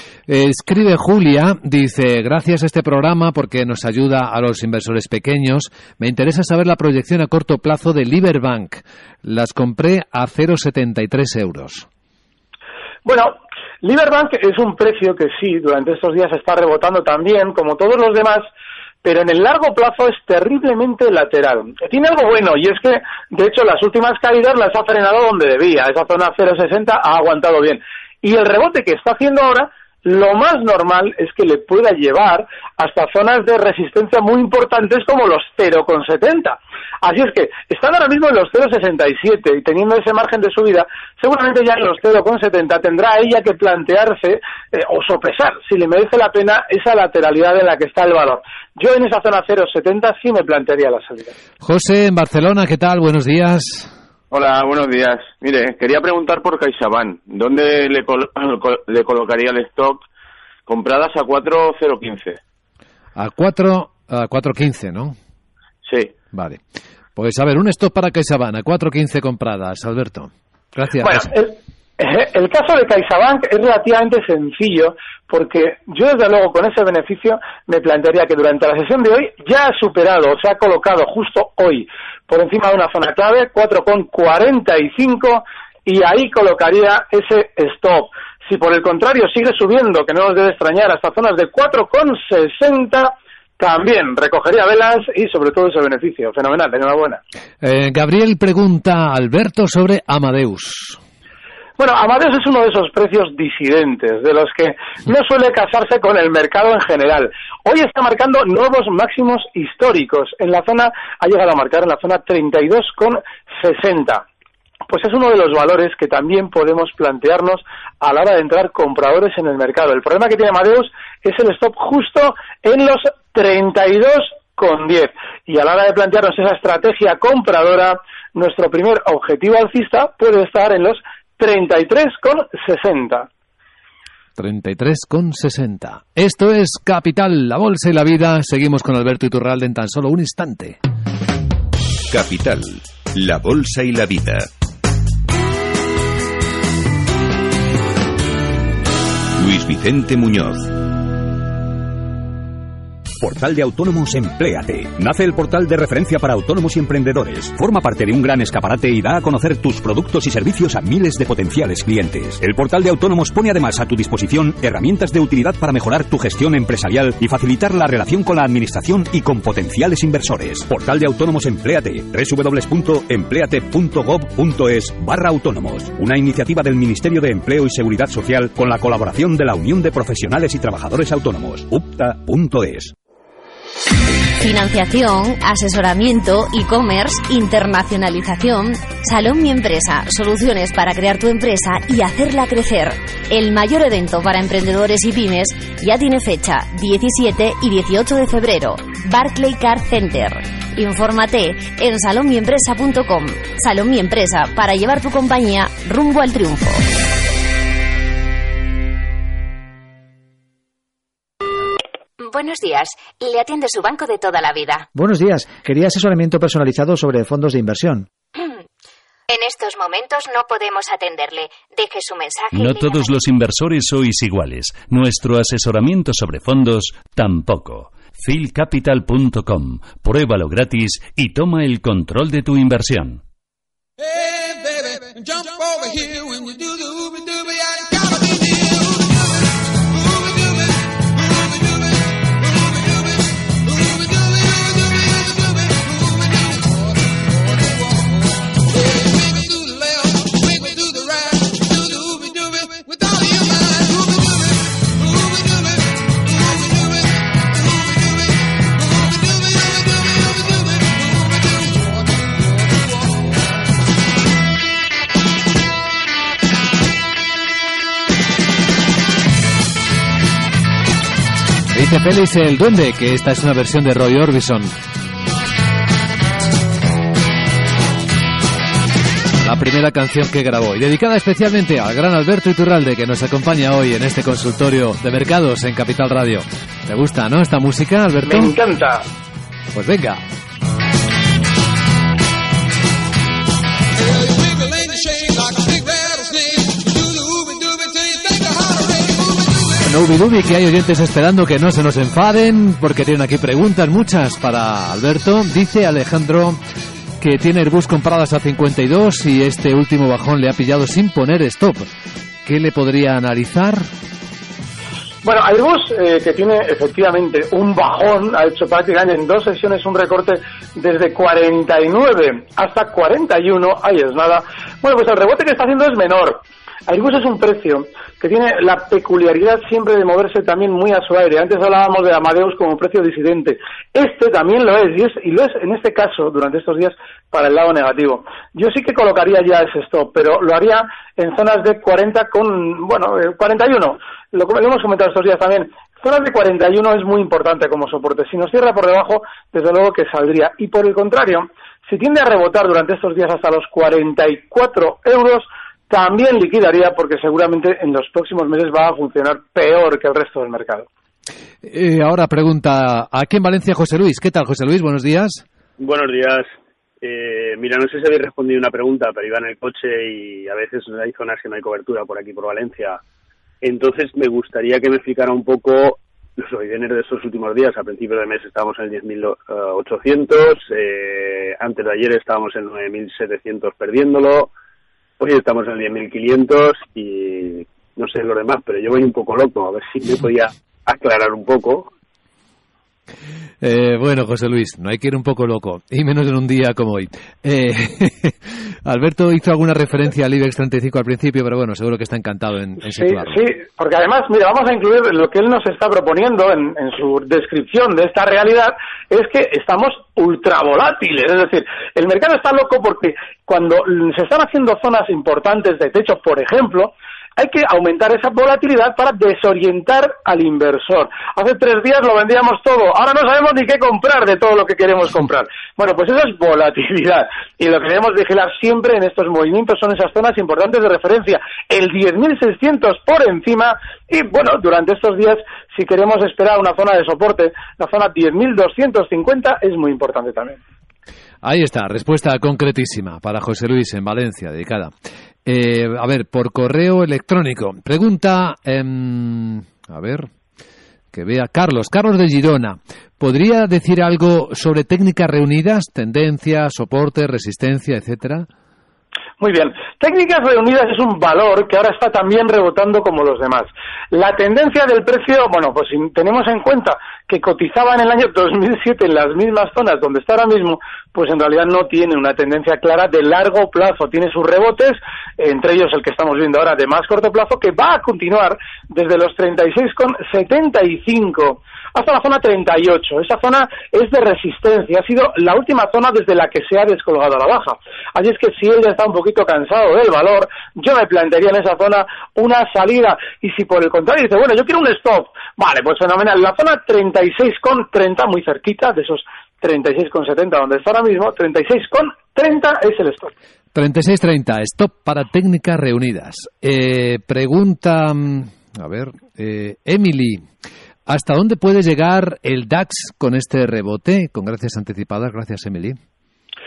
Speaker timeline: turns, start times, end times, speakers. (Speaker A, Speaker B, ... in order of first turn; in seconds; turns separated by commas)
Speaker A: 0.3-11.9, Speaker B: 13.0-18.4, Speaker B: 19.0-51.3, Speaker A: 51.6-53.9, Speaker C: 54.3-60.0, Speaker C: 60.7-62.4, Speaker A: 63.1-65.2, Speaker C: 65.8-66.1, Speaker A: 66.3-66.6, Speaker A: 67.2-71.3, Speaker B: 71.0-97.2, Speaker A: 97.6-101.0, Speaker B: 101.8-114.2, Speaker B: 114.9-133.3, Speaker A: 134.4-140.8, Speaker D: 142.1-144.5, Speaker D: 149.4-150.7, Speaker E: 153.2-182.9, Speaker F: 184.4-206.8, Speaker G: 212.2-214.9, Speaker H: 214.9-218.1, Speaker G: 219.3-223.1, Speaker I: 222.5-233.2, Speaker A: 271.7-274.7, Speaker A: 279.4-288.6, Speaker B: 288.2-289.1, Speaker A: 289.7-290.2, Speaker A: 299.8-306.6, Speaker A: 307.2-311.9, Speaker A: 312.4-313.9, Speaker B: 315.2-360.9, Speaker A: 361.6-365.4, Speaker J: 365.8-373.0, Speaker J: 373.6-384.5, Speaker J: 385.2-391.9, Speaker A: 393.6-403.4, Speaker B: 402.9-440.6, Speaker A: 441.4-444.9, Speaker A: 445.4-450.3, Speaker A: 451.1-458.5, Speaker B: 459.4-503.3, Speaker A: 503.7-510.4, Speaker A: 511.1-516.0